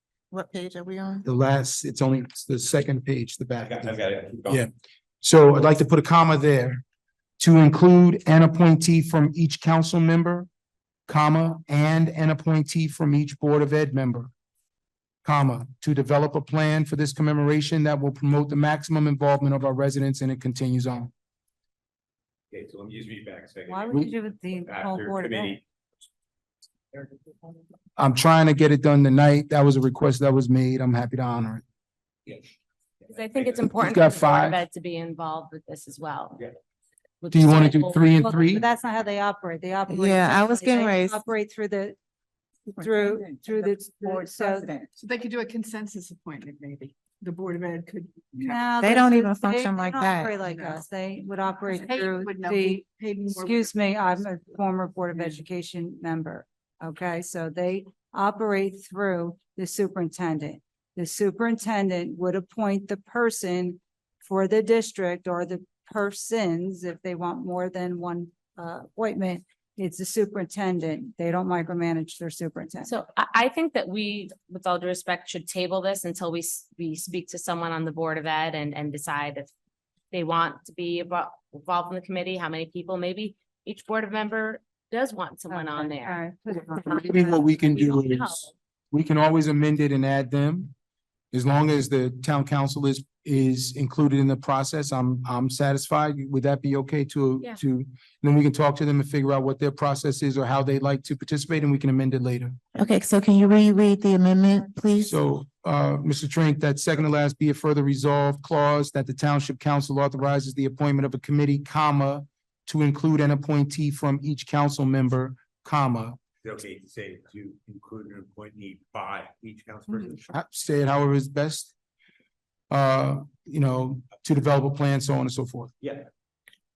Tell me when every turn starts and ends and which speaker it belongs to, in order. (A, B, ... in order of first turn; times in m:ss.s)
0:00.3-0:01.2 A
0:01.2-0:04.0 B
0:03.6-0:04.6 C
0:05.2-0:06.8 B
0:07.4-0:10.5 B
0:11.1-0:14.3 B
0:15.2-0:21.1 B
0:22.5-0:24.0 C
0:23.6-0:25.6 D
0:24.5-0:25.6 C
0:28.0-0:31.6 B
0:33.1-0:36.4 E
0:33.7-0:34.6 B
0:37.2-0:38.3 E
0:37.3-0:38.6 B
0:38.2-0:42.0 D
0:39.9-0:41.2 A
0:42.8-0:44.9 A
0:42.8-0:44.7 D
0:45.0-0:48.6 F
0:48.4-1:12.9 D
0:48.8-0:50.4 A
0:50.5-0:50.7 F
0:51.6-0:54.1 F
1:12.8-1:19.5 E
1:20.1-1:26.2 E
1:25.5-1:27.1 D
1:26.5-1:30.7 B
1:26.8-1:28.5 E
1:31.3-1:42.6 B
1:42.7-1:45.2 A
1:45.0-1:56.2 B
1:56.4-2:00.3 C
2:00.3-2:01.7 B
2:02.7-2:05.7 B
2:05.8-2:06.1 C